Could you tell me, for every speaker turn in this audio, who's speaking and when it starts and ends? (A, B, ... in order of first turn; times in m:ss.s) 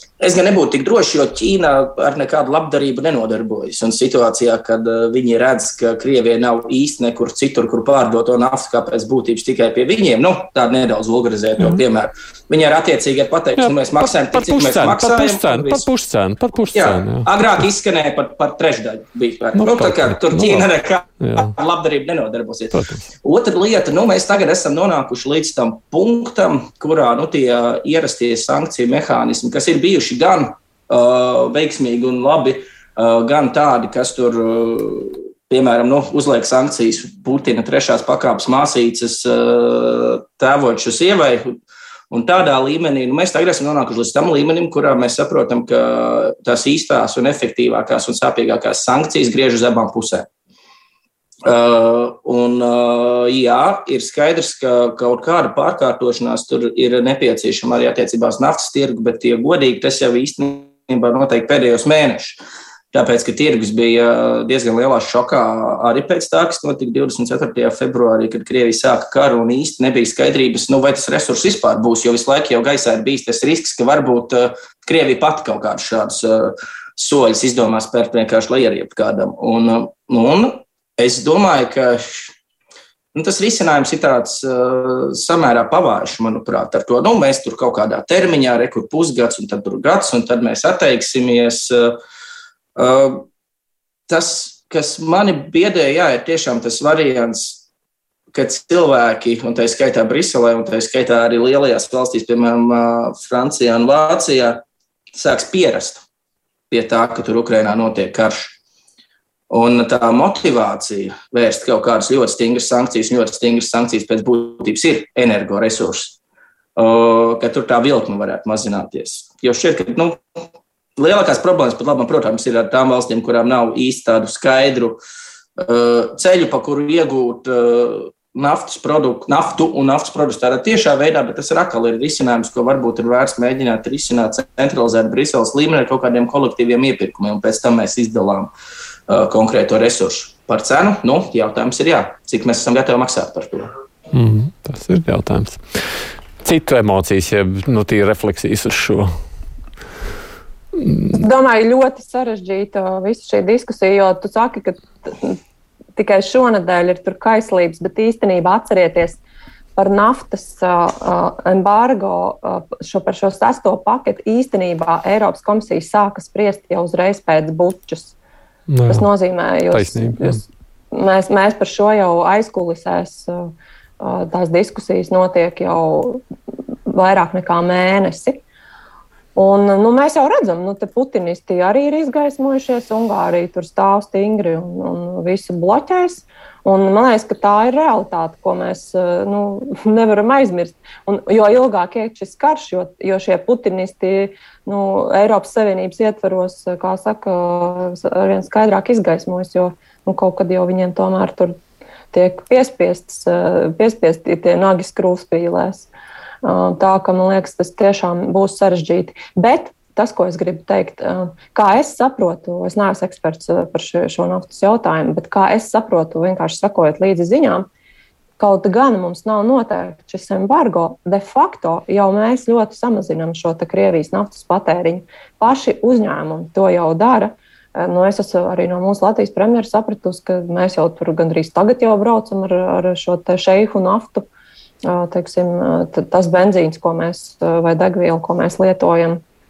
0:00.2-0:15.9 A
0:13.6-0:17.3 B
0:16.7-0:41.6 A
0:19.6-0:20.7 B
0:21.2-0:21.5 B
0:22.7-0:23.0 B
0:42.1-0:50.3 A
0:51.4-1:02.4 A
1:02.9-1:22.3 A
1:23.1-1:32.0 A
1:32.8-1:33.2 A
1:34.1-1:37.6 A
1:38.3-1:44.6 A
1:45.1-1:46.0 A
1:46.7-1:48.6 A
1:49.5-1:56.2 A
1:56.8-2:00.2 A
2:01.0-2:05.0 A
2:05.6-2:18.5 A
2:19.1-2:23.7 A
2:24.1-2:25.8 B
2:26.4-2:29.1 B
2:31.1-2:35.4 C
2:36.0-2:39.2 C
2:39.8-2:48.2 C
2:48.7-2:49.1 B
2:48.9-2:56.2 C
2:49.7-2:50.2 B
2:56.9-2:58.4 C
2:59.4-3:21.6 C
3:22.1-3:25.9 C
3:26.4-3:37.7 C
3:38.4-3:54.3 C
3:54.8-3:59.2 C